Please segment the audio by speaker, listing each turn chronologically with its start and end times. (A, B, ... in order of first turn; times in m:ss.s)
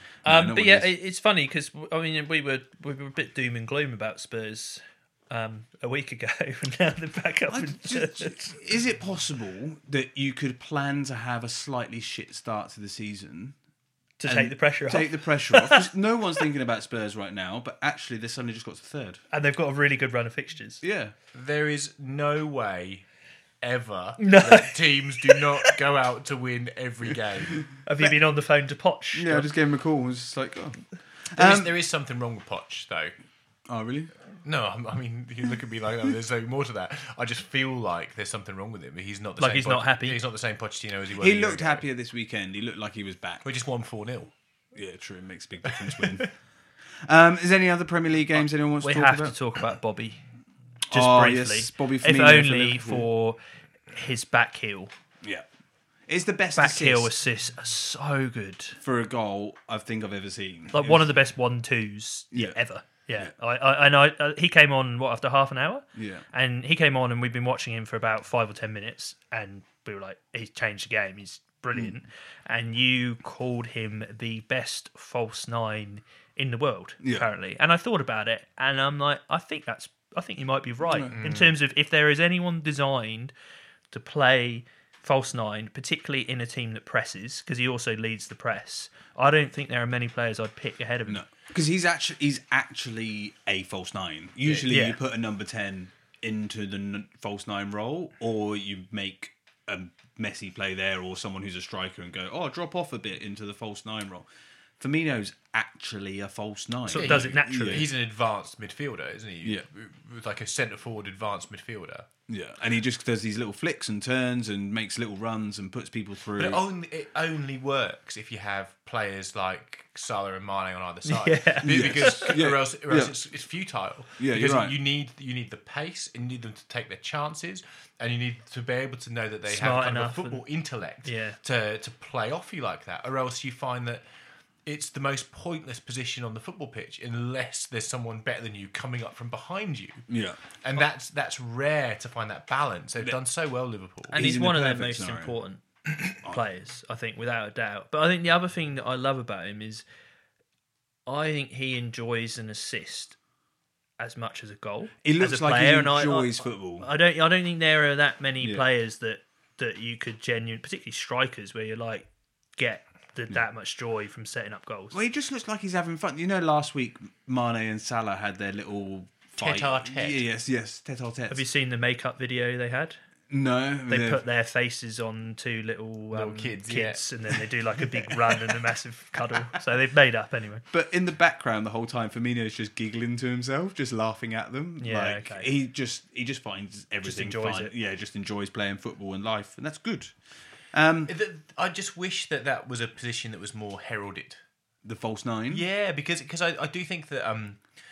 0:00.2-0:00.9 A
0:00.3-0:08.5 B
0:07.5-0:13.6 A
0:14.2-0:15.9 B
0:14.3-0:19.2 A
0:19.3-0:20.8 B
0:20.8-0:21.1 A
0:21.3-0:23.0 C
0:23.6-0:27.7 C
0:24.2-0:25.7 B
0:27.8-0:29.5 B
0:29.1-0:30.8 A
0:31.3-0:31.7 A
0:31.4-0:33.1 C
0:33.7-0:34.1 A
0:34.4-0:41.8 C
0:39.4-0:40.2 B
0:41.2-0:43.4 A
0:43.4-0:44.3 C
0:44.7-0:46.3 A
0:45.7-0:46.3 C
0:47.0-0:49.4 A
0:48.8-0:50.2 B
0:50.9-0:53.1 A
0:50.9-0:53.4 B
0:53.9-0:54.9 B
0:56.1-0:57.1 A
0:56.6-0:58.8 B
0:58.8-1:01.1 A
1:00.7-1:23.3 B
1:02.3-1:02.6 A
1:06.0-1:06.2 A
1:17.0-1:17.3 A
1:20.8-1:21.2 A
1:21.1-1:21.5 C
1:23.9-1:31.2 B
1:31.1-1:44.3 A
1:34.7-1:35.0 B
1:44.8-1:47.9 A
1:46.9-1:47.9 B
1:46.9-1:52.1 C
1:52.3-1:56.6 A
1:56.4-2:14.0 C
2:01.0-2:02.4 B
2:01.6-2:03.1 A
2:04.2-2:04.8 A
2:09.5-2:10.4 B
2:11.0-2:11.4 B
2:14.7-2:20.0 C
2:20.1-2:20.4 A
2:20.6-2:24.2 C
2:24.1-2:29.8 B
2:24.1-2:25.4 A
2:31.1-2:33.2 B
2:34.0-2:45.0 B
2:35.0-2:36.9 A
2:44.9-2:51.4 A
2:49.4-2:50.2 C
2:51.3-2:53.0 B
2:53.3-2:54.2 A
2:53.9-3:00.6 B
2:56.1-2:57.0 C
3:00.7-3:10.2 A
3:04.8-3:05.5 B
3:07.0-3:07.7 B
3:10.7-3:11.1 A
3:11.1-3:14.4 C
3:14.8-3:15.7 A
3:15.5-3:17.6 C